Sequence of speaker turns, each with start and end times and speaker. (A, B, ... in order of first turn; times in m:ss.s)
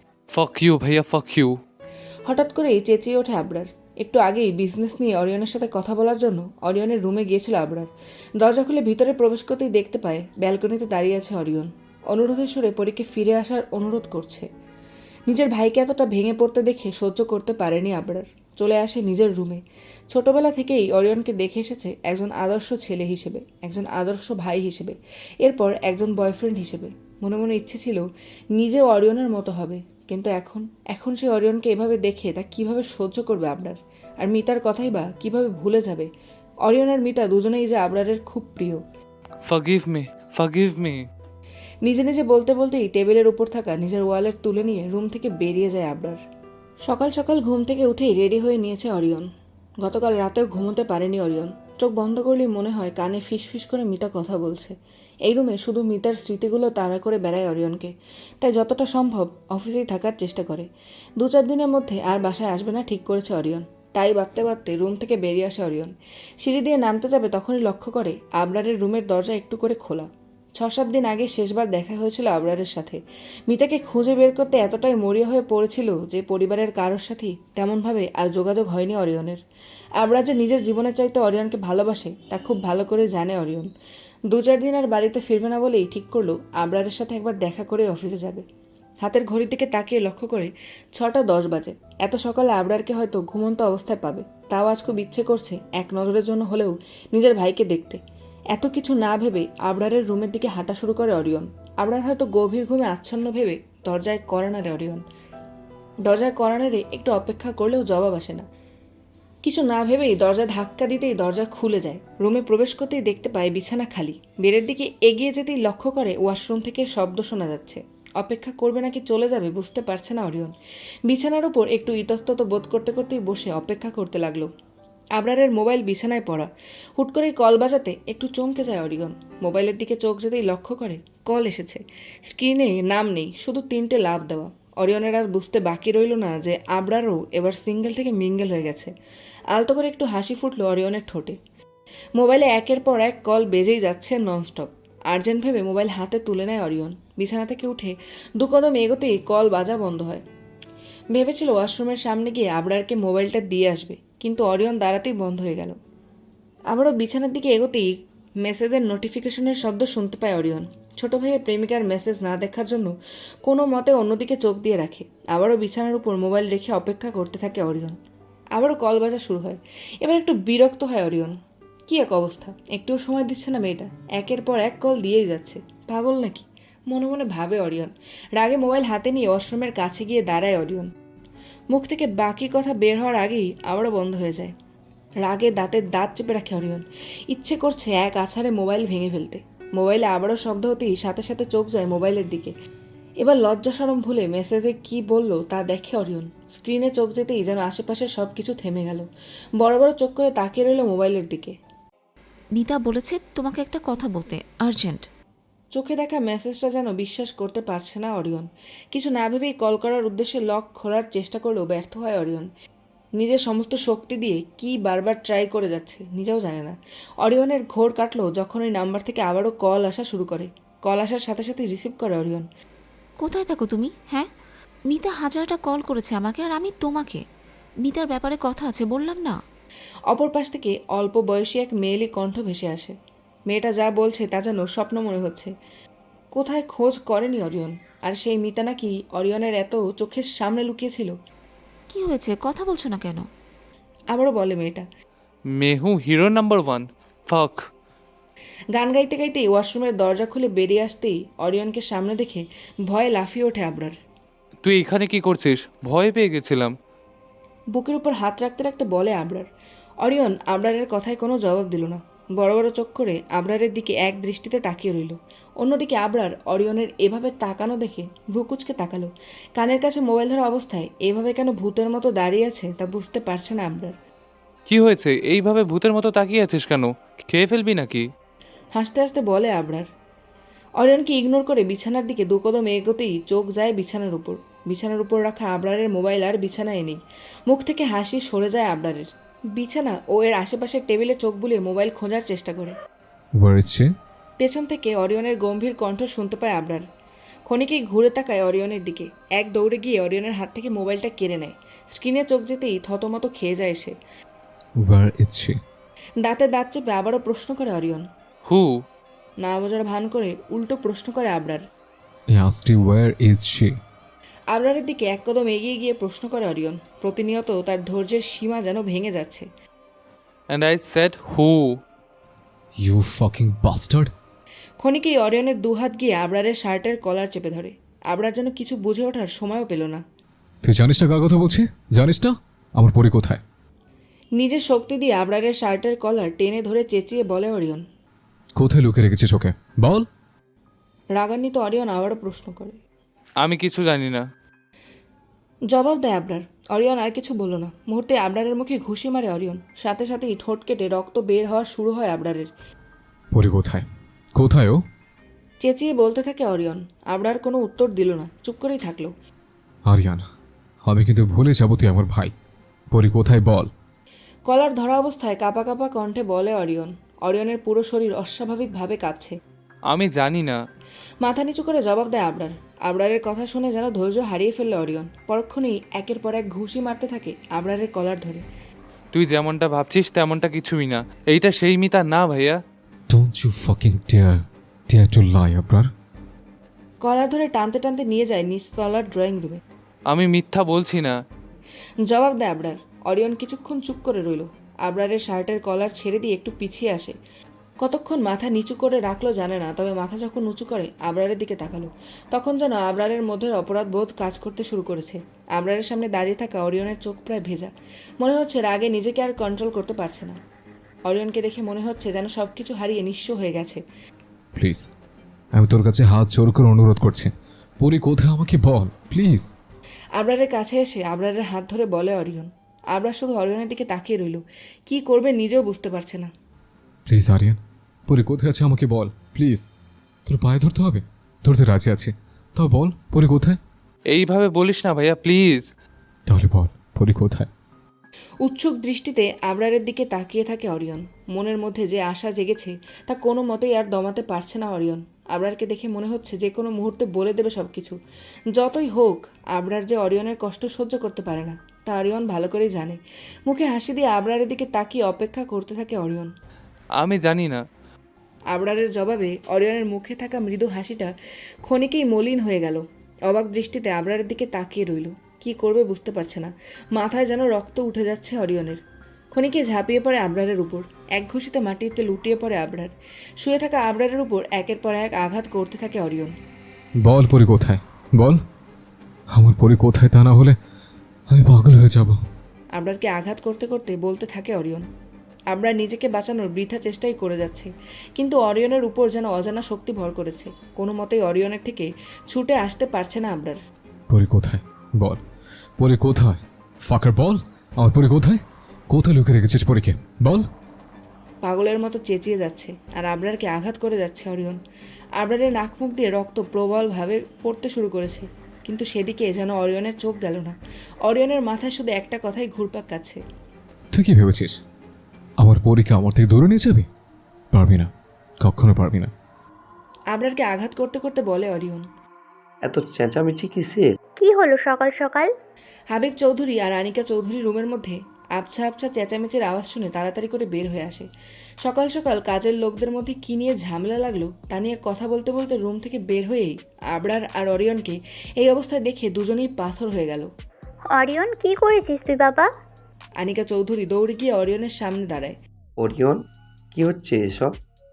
0:00.3-0:01.5 A
0:02.3-0:14.5 B
0:15.3-0:28.0 B
0:28.6-0:36.1 B
0:36.6-0:38.8 B
0:39.5-0:41.0 A
0:41.8-0:46.2 B
0:46.8-0:49.3 B
0:49.8-0:54.7 B
0:55.2-1:19.4 B
1:20.0-1:23.7 B
1:24.3-1:28.4 B
1:29.0-1:38.0 B
1:38.5-1:45.0 B
1:46.0-1:48.4 B
1:49.4-2:00.5 B
2:01.1-2:04.5 B
2:05.2-2:18.9 B
2:19.5-2:21.4 B
2:22.2-2:30.2 B
2:31.1-2:35.8 B
2:36.7-2:48.0 B
2:48.5-2:51.3 B
2:51.9-3:00.9 B
3:01.7-3:04.5 B
3:05.2-3:12.5 B
3:13.2-3:19.0 B
3:19.6-3:21.5 B
3:22.5-3:25.1 C
3:25.7-3:32.5 B
3:33.2-3:42.5 B
3:43.2-3:44.3 C
3:44.9-3:47.2 C
3:47.8-3:49.4 C
3:50.1-3:52.9 B
3:53.5-3:55.5 B
3:56.3-4:01.2 B
4:01.9-4:03.3 C
4:04.1-4:04.9 B
4:05.5-4:07.6 A
4:08.7-4:14.0 B
4:14.6-4:16.7 A
4:17.7-4:19.4 B
4:20.0-4:33.9 B
4:34.7-4:38.0 A
4:38.7-4:39.9 B
4:40.8-4:52.8 B
4:53.4-4:53.9 D
4:54.4-4:56.8 B
4:57.5-5:03.9 B
5:04.8-5:05.6 D
5:06.2-5:08.0 B
5:08.5-5:08.8 A
5:09.4-5:11.6 B
5:12.3-5:13.8 D
5:14.5-5:19.5 B
5:20.5-5:21.8 A
5:22.8-5:24.1 D
5:24.8-5:30.0 B
5:30.6-5:33.4 D
5:34.4-5:37.8 B
5:38.6-5:40.1 D
5:41.2-5:42.8 B
5:43.4-5:44.2 A
5:45.7-5:52.5 B
5:53.3-5:54.8 D
5:55.6-5:59.1 B
5:59.9-6:00.2 D
6:00.8-6:02.3 D
6:02.9-6:03.7 D
6:04.5-6:09.3 B
6:09.9-6:10.6 A
6:11.2-6:18.4 B
6:19.1-6:22.6 A
6:23.1-6:25.9 D
6:27.0-6:29.6 B
6:30.1-6:31.2 A
6:32.0-6:37.1 B
6:37.8-6:50.4 B
6:51.0-6:53.8 B
6:54.5-6:54.9 D
6:55.5-6:59.5 D
7:00.2-7:06.3 B
7:07.1-7:09.7 D
7:10.2-7:13.6 D
7:14.1-7:15.6 A
7:16.3-7:17.5 D
7:18.4-7:28.0 B
7:28.5-7:36.3 B
7:37.0-7:37.6 A
7:38.5-7:41.1 B
7:41.6-7:48.8 B
7:49.3-7:56.3 B
7:57.0-7:58.4 D
7:59.3-8:00.6 D
8:01.3-8:02.2 D
8:02.8-8:04.8 B
8:05.5-8:13.6 B
8:14.1-8:15.2 D
8:15.8-8:20.5 D
8:21.4-8:24.6 B
8:25.2-8:33.2 B
8:33.9-8:34.6 D
8:35.4-8:36.9 D
8:37.5-8:39.1 D
8:40.1-8:41.8 B
8:42.6-8:43.9 E
8:44.2-8:45.3 F
8:45.9-8:51.1 B
8:51.6-9:00.3 B
9:00.9-9:02.5 F
9:03.2-9:05.4 B
9:05.8-9:06.2 E
9:06.7-9:07.5 E